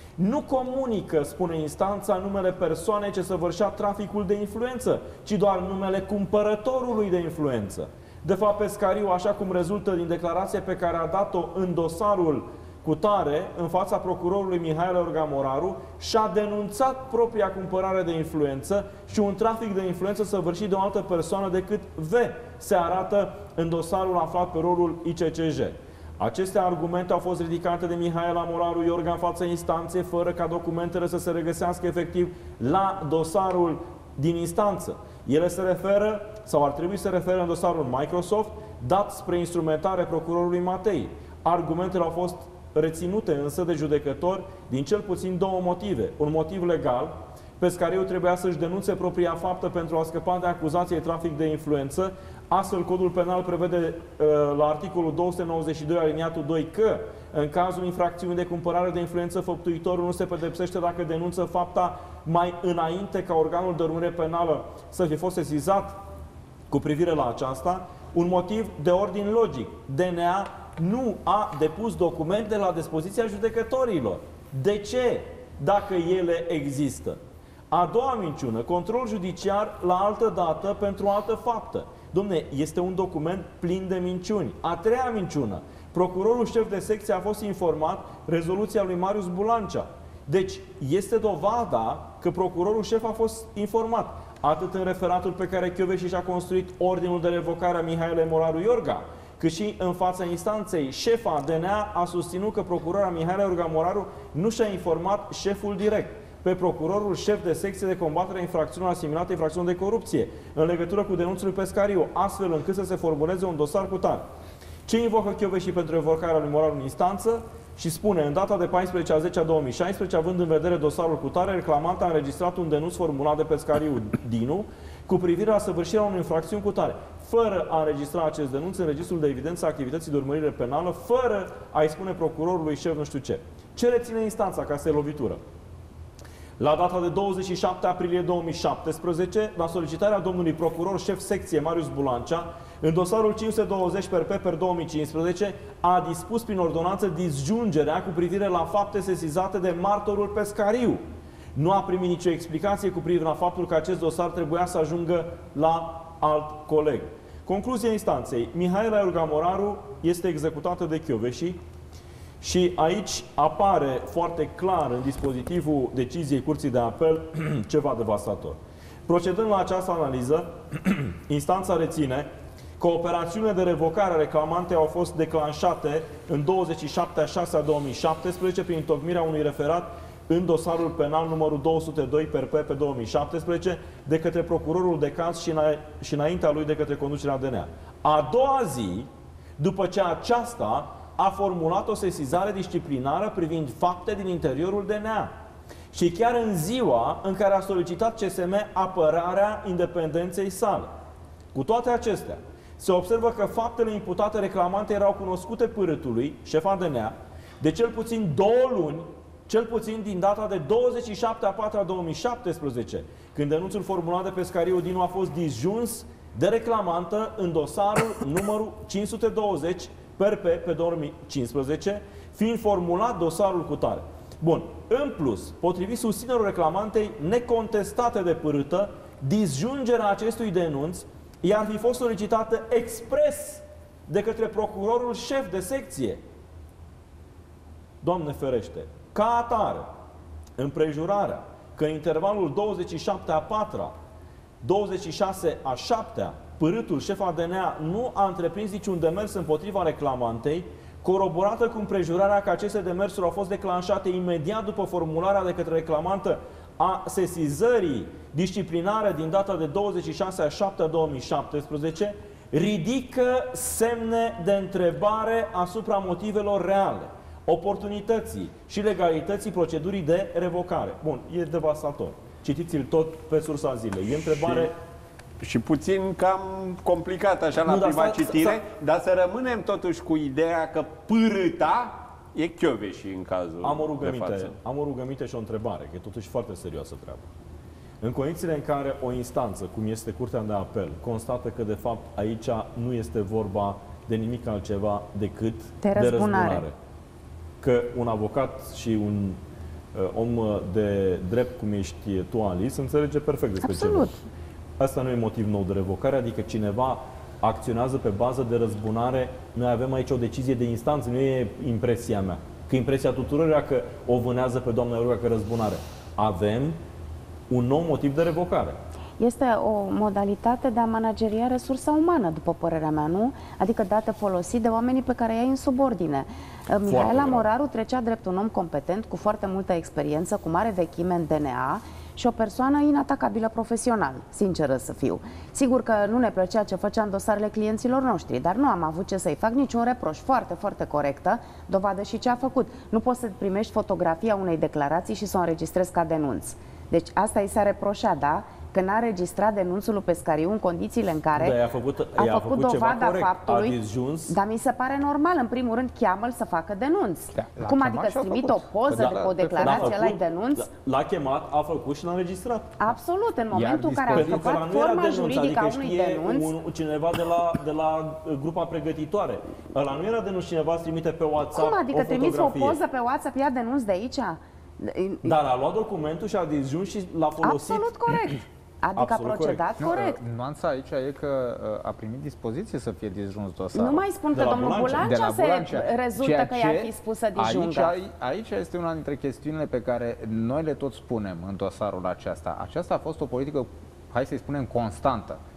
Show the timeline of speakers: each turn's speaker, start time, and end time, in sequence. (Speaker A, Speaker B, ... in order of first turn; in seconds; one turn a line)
Speaker A: 0.2-66.0
Speaker A: 66.7-77.2
Speaker A: 77.7-114.2
Speaker A: 114.9-135.4
Speaker A: 136.6-151.0
Speaker A: 151.6-161.6
Speaker A: 162.4-172.3
Speaker A: 172.8-189.1
Speaker A: 189.6-195.3
Speaker A: 195.9-200.9
Speaker A: 201.5-236.2
Speaker A: 238.0-239.9
Speaker A: 240.6-243.9
Speaker A: 244.6-274.8
Speaker B: 275.4-284.5
Speaker A: 277.6-278.6
Speaker A: 283.6-287.3
Speaker A: 288.0-296.8
Speaker C: 295.8-296.6
Speaker A: 297.6-299.4
Speaker A: 299.9-304.2
Speaker C: 303.6-304.1
Speaker A: 304.8-316.8
Speaker A: 317.5-318.8
Speaker C: 319.2-351.6
Speaker A: 326.9-327.5
Speaker A: 351.4-354.4
Speaker C: 352.1-360.7
Speaker D: 357.4-360.0
Speaker A: 359.6-362.8
Speaker C: 362.8-366.5
Speaker D: 363.5-364.5
Speaker A: 364.1-372.8
Speaker C: 371.5-375.4
Speaker A: 375.2-378.2
Speaker C: 377.4-380.2
Speaker A: 379.0-379.7
Speaker D: 379.8-384.1
Speaker C: 383.7-388.0
Speaker A: 384.3-385.1
Speaker D: 384.9-395.4